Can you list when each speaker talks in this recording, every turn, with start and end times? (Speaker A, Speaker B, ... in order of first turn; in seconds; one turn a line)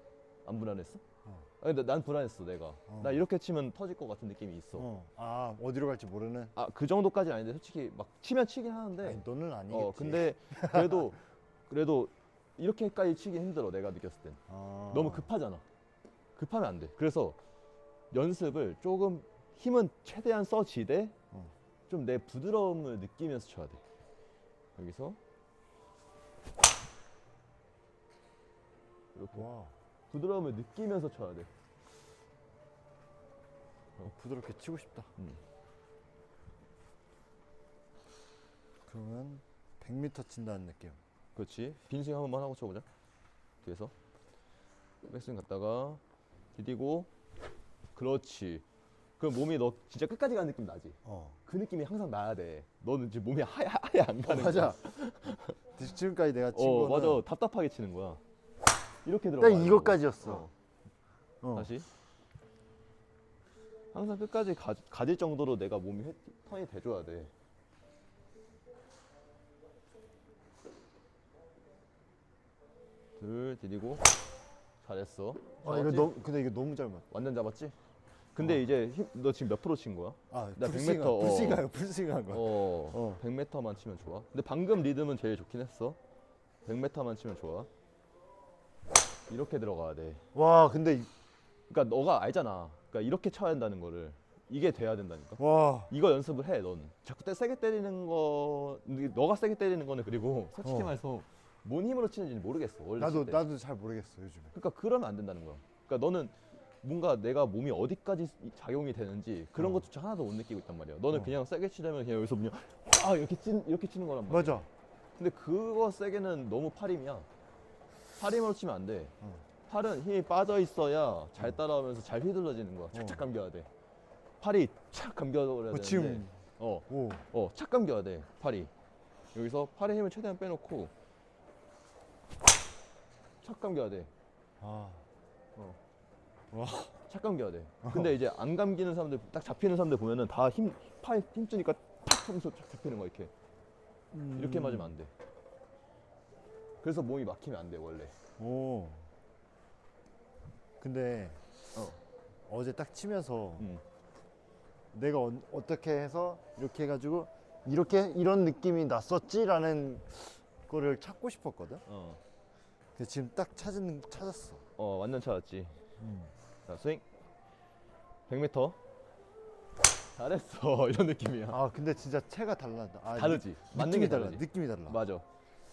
Speaker A: 0.5-1.0
Speaker A: 1.6-4.9
Speaker B: 2.9-3.2
Speaker B: 4.8-6.5
Speaker A: 6.5-14.4
Speaker B: 9.0-11.1
Speaker B: 14.5-15.3
Speaker A: 14.9-15.7
Speaker A: 16.4-17.4
Speaker A: 18.1-21.1
Speaker A: 21.9-23.8
Speaker A: 24.8-25.2
Speaker A: 29.1-29.5
Speaker B: 29.3-29.7
Speaker A: 30.1-31.5
Speaker B: 34.0-35.1
Speaker B: 38.9-41.0
Speaker A: 41.4-42.9
Speaker A: 43.6-43.9
Speaker A: 45.1-46.0
Speaker A: 46.5-47.1
Speaker A: 48.0-48.6
Speaker A: 49.2-55.6
Speaker B: 51.0-51.4
Speaker B: 54.3-54.8
Speaker B: 55.8-57.2
Speaker A: 56.5-58.2
Speaker A: 59.0-60.5
Speaker B: 59.4-60.5
Speaker B: 61.4-61.7
Speaker A: 61.5-61.9
Speaker A: 63.9-67.3
Speaker A: 73.2-74.0
Speaker A: 74.8-76.2
Speaker B: 75.6-77.1
Speaker A: 77.1-77.8
Speaker A: 78.4-81.7
Speaker B: 80.3-83.2
Speaker A: 82.3-86.0
Speaker A: 86.7-87.7
Speaker A: 89.3-90.2
Speaker B: 90.3-91.1
Speaker A: 91.7-103.4
Speaker B: 95.4-95.9
Speaker B: 100.6-101.0
Speaker B: 103.0-104.5
Speaker A: 104.5-114.7
Speaker B: 109.6-109.9
Speaker B: 114.3-114.7
Speaker A: 115.2-117.3
Speaker A: 118.2-119.2
Speaker A: 119.7-123.7
Speaker B: 122.9-123.2
Speaker A: 124.4-128.7
Speaker B: 125.7-127.3
Speaker A: 129.3-130.9
Speaker A: 133.4-134.1
Speaker B: 134.6-135.1
Speaker B: 136.5-137.0
Speaker A: 137.1-143.3
Speaker B: 137.8-138.1
Speaker B: 144.1-144.9
Speaker A: 144.4-145.1
Speaker A: 146.8-148.1
Speaker B: 148.4-149.1
Speaker B: 150.8-151.8
Speaker A: 151.8-152.0
Speaker B: 152.5-153.7
Speaker A: 153.6-153.8
Speaker B: 154.9-161.8
Speaker A: 161.9-162.2
Speaker B: 163.0-164.6
Speaker A: 164.8-165.8
Speaker B: 166.0-166.3
Speaker A: 166.7-167.0
Speaker A: 168.3-168.8
Speaker A: 170.2-171.6
Speaker B: 171.5-175.0
Speaker A: 173.1-175.3